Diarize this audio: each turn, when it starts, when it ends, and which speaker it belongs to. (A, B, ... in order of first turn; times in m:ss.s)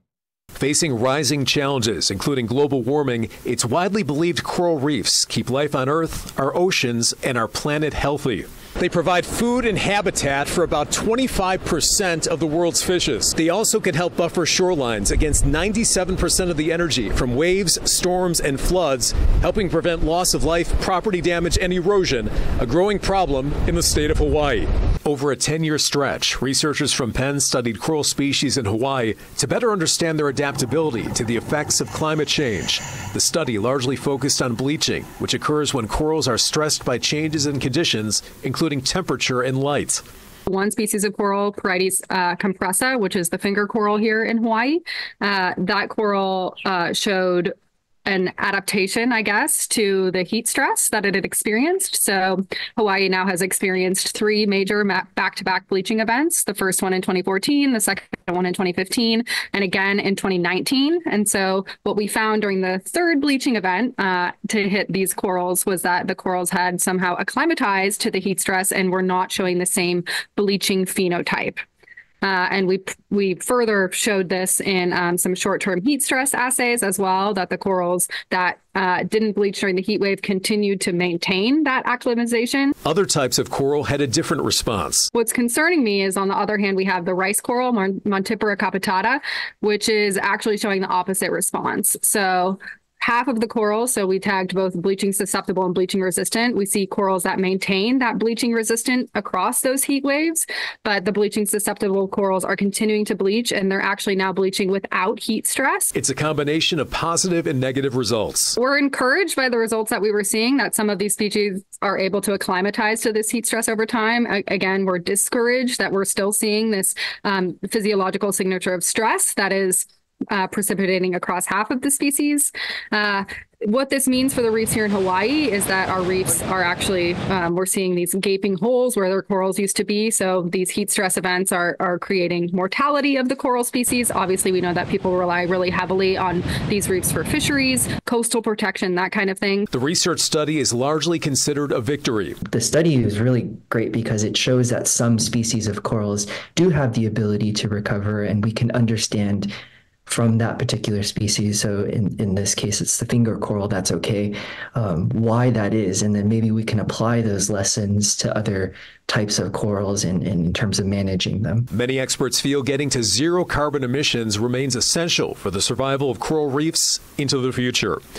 0:00.6-0:40.0 A
0:40.5-0:47.5 B
0:48.1-1:11.6 B
1:12.2-1:22.8 B
1:22.8-1:25.1 A
1:25.1-1:45.9 B
1:46.0-1:48.6 A
1:48.6-2:19.7 B
2:19.7-2:22.4 A
2:22.5-2:29.5 C
2:30.1-2:41.7 C
2:41.7-2:48.0 A